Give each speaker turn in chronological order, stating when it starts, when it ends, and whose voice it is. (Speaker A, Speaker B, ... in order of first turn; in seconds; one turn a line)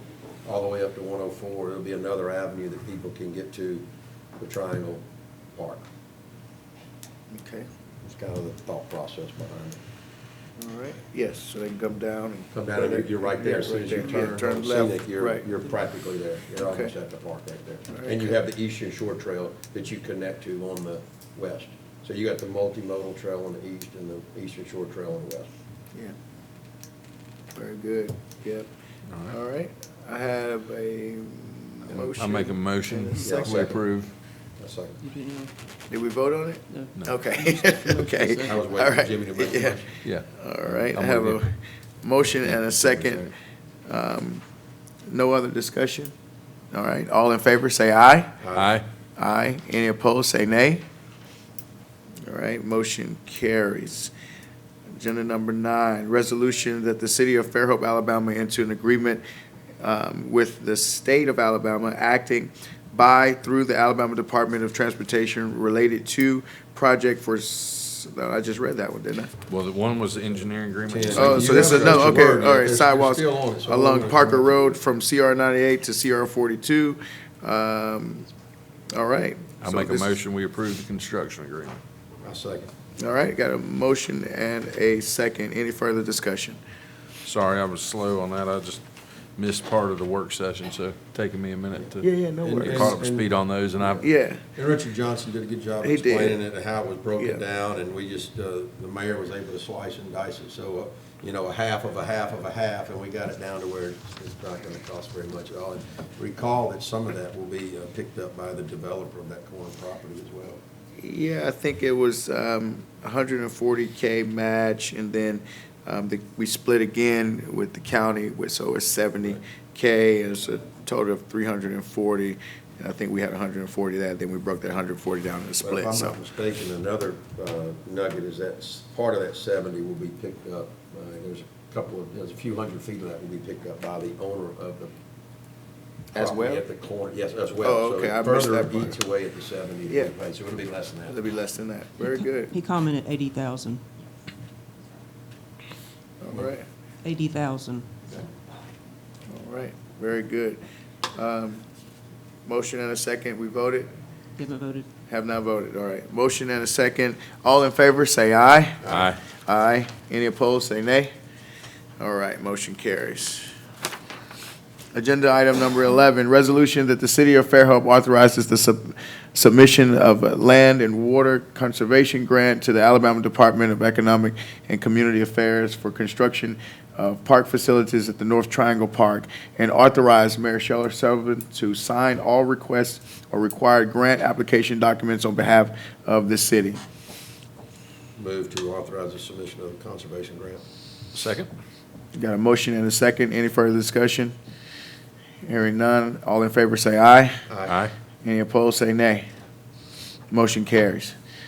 Speaker A: 0.4-3.9
Speaker A: 4.4-5.0
Speaker A: 5.5-5.9
Speaker B: 7.3-7.7
Speaker A: 8.0-9.8
Speaker B: 10.6-15.4
Speaker A: 12.5-25.5
Speaker B: 16.6-16.9
Speaker B: 17.9-18.3
Speaker B: 27.5-28.7
Speaker B: 29.2-33.8
Speaker C: 32.2-34.1
Speaker A: 33.2-33.8
Speaker A: 34.6-35.0
Speaker D: 35.0-35.5
Speaker B: 35.9-39.8
Speaker D: 36.7-38.5
Speaker A: 38.4-40.0
Speaker C: 40.0-41.4
Speaker B: 40.4-43.3
Speaker C: 42.4-43.3
Speaker B: 43.9-44.4
Speaker B: 45.1-46.1
Speaker B: 46.7-48.4
Speaker A: 48.4-48.8
Speaker C: 48.5-48.8
Speaker B: 49.2-50.8
Speaker B: 52.3-54.1
Speaker B: 55.0-59.2
Speaker B: 59.8-69.3
Speaker C: 69.5-72.2
Speaker A: 70.9-74.8
Speaker B: 71.1-78.3
Speaker B: 78.9-80.2
Speaker C: 79.6-81.8
Speaker A: 82.2-82.7
Speaker B: 83.0-86.6
Speaker C: 87.2-88.8
Speaker C: 89.4-92.0
Speaker B: 92.0-93.0
Speaker A: 92.4-110.6
Speaker C: 92.6-94.0
Speaker B: 94.0-94.4
Speaker B: 95.8-96.4
Speaker B: 111.0-126.2
Speaker A: 125.6-134.9
Speaker B: 136.1-136.6
Speaker A: 136.1-141.2
Speaker B: 137.6-139.0
Speaker B: 141.1-142.5
Speaker D: 142.1-143.8
Speaker B: 146.2-146.7
Speaker D: 147.0-147.9
Speaker B: 149.3-150.6
Speaker B: 151.1-151.6
Speaker B: 152.4-153.9
Speaker D: 154.4-154.9
Speaker B: 155.1-161.1
Speaker C: 158.8-159.2
Speaker B: 162.0-163.5
Speaker B: 164.9-186.8
Speaker A: 188.2-190.6
Speaker C: 191.1-191.5
Speaker B: 192.1-194.3
Speaker B: 195.4-197.3
Speaker A: 197.5-197.8
Speaker C: 197.7-197.9
Speaker B: 198.2-199.2
Speaker B: 200.3-201.1